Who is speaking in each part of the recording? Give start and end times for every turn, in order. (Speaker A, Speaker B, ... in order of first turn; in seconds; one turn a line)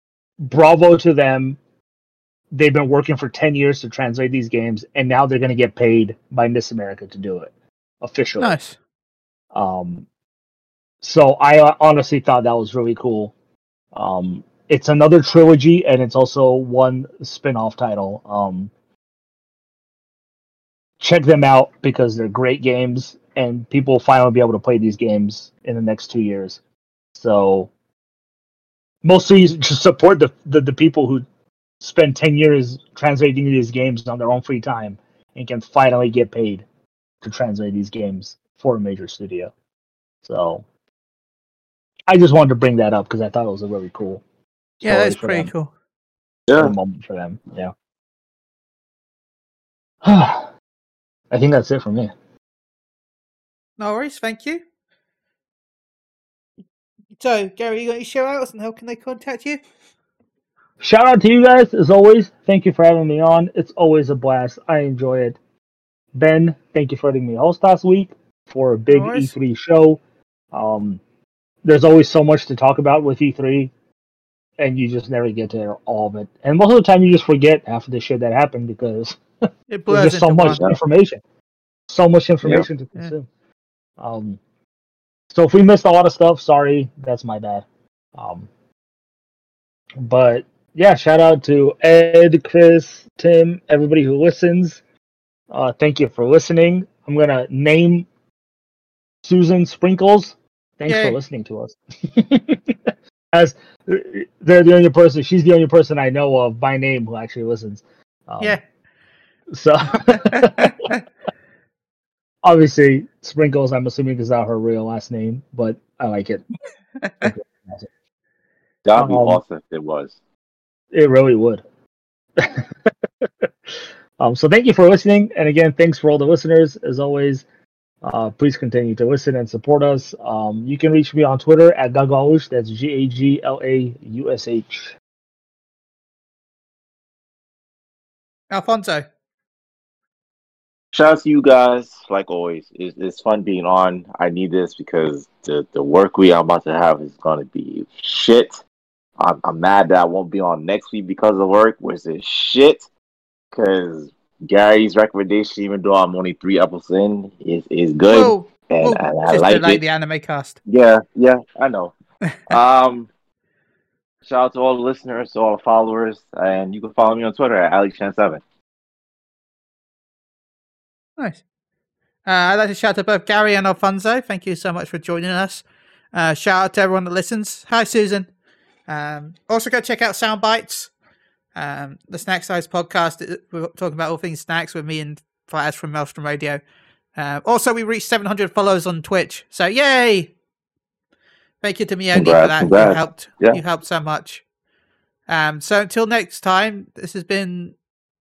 Speaker A: 0.4-1.6
Speaker A: 2.5-8.6
Speaker B: 8.4-8.8
Speaker A: 9.5-10.1
Speaker A: 11.0-13.3
Speaker A: 13.9-18.7
Speaker A: 21.0-26.6
Speaker A: 27.1-27.7
Speaker A: 29.0-31.2
Speaker A: 31.8-36.6
Speaker A: 37.2-39.5
Speaker A: 40.2-40.6
Speaker A: 42.1-44.2
Speaker A: 44.8-45.5
Speaker B: 44.8-45.7
Speaker C: 46.5-46.8
Speaker A: 46.6-47.7
Speaker A: 50.0-50.5
Speaker A: 51.3-52.1
Speaker B: 53.8-54.6
Speaker B: 57.2-59.6
Speaker A: 60.8-65.4
Speaker A: 66.1-70.0
Speaker B: 68.9-69.3
Speaker A: 70.5-71.0
Speaker A: 71.6-73.7
Speaker A: 74.6-79.2
Speaker B: 79.7-80.6
Speaker A: 79.9-81.2
Speaker A: 81.9-83.3
Speaker A: 84.0-84.4
Speaker A: 85.3-88.5
Speaker A: 90.0-94.8
Speaker A: 95.5-98.1
Speaker A: 99.2-108.6
Speaker B: 100.9-101.2
Speaker A: 109.5-110.9
Speaker B: 110.3-111.0
Speaker A: 112.4-116.4
Speaker B: 117.0-117.3
Speaker A: 117.2-117.9
Speaker C: 118.8-120.2
Speaker A: 119.0-119.4
Speaker A: 120.9-121.6
Speaker A: 122.4-127.5
Speaker A: 128.0-134.9
Speaker B: 138.5-139.1
Speaker C: 140.9-148.6
Speaker C: 149.2-152.8
Speaker C: 153.5-159.8
Speaker B: 158.1-160.6
Speaker C: 160.7-161.9
Speaker C: 162.5-163.1
Speaker C: 164.3-168.4
Speaker B: 172.3-178.3
Speaker B: 178.9-180.9
Speaker B: 181.6-186.6
Speaker B: 187.2-190.3
Speaker B: 191.6-194.4
Speaker C: 192.1-193.6
Speaker B: 195.3-197.8